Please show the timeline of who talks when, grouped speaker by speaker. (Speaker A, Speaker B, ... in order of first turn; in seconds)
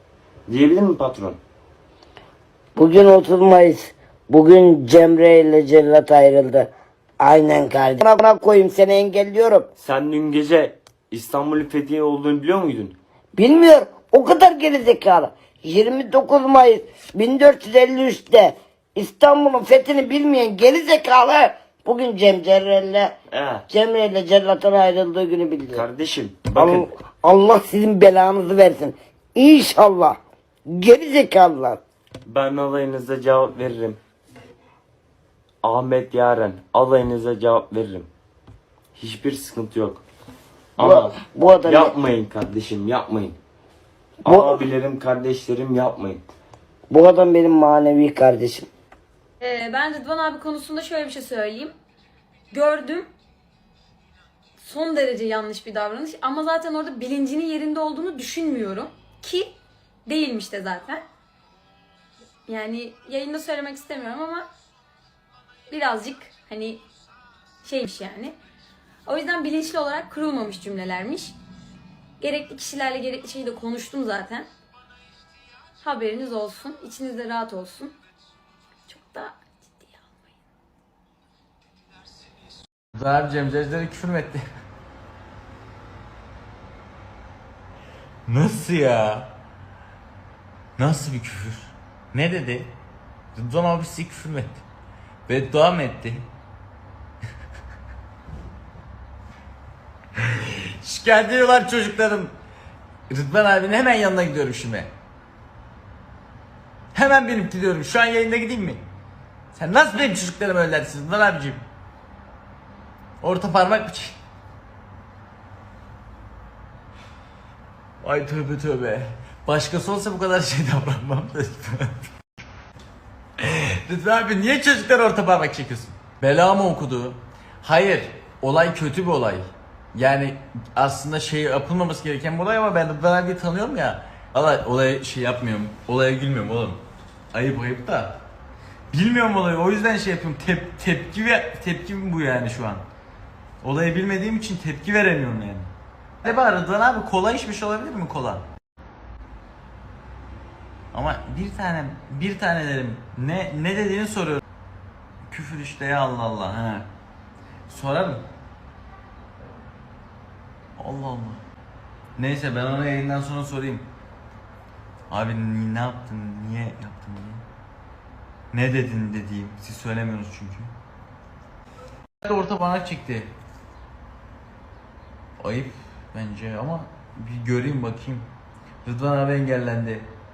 Speaker A: 0.5-1.4, 9.8-13.0, 23.3-23.6, 25.7-26.9, 32.3-34.0, 35.6-38.1, 39.0-40.0, 40.8-43.4, 44.2-46.2
Speaker B: 2.8-9.7, 13.3-23.1, 23.7-25.9, 26.6-30.2, 30.7-31.8, 40.8-42.0, 44.2-44.6, 46.9-48.7
Speaker C: 49.4-51.7, 52.5-53.1, 54.6-59.5, 60.1-61.0, 62.5-64.5, 65.7-66.8, 67.6-68.4, 69.0-71.3, 72.2-74.5, 75.8-77.9, 78.9-80.1
Speaker D: 82.9-84.4, 88.3-89.3, 90.8-92.7, 93.3-94.6, 95.3-96.3, 100.3-102.3, 103.1-104.9, 106.9-108.8, 109.5-111.6, 113.2-114.2, 118.0-122.1, 123.4-136.8, 137.3-138.2, 138.9-142.8, 143.6-145.7, 146.2-148.5, 150.9-154.4, 155.3-156.9, 157.7-158.3, 160.8-161.4, 162.2-163.9, 165.1-167.4, 168.5-170.7, 172.2-173.3, 175.4-178.3, 178.8-180.1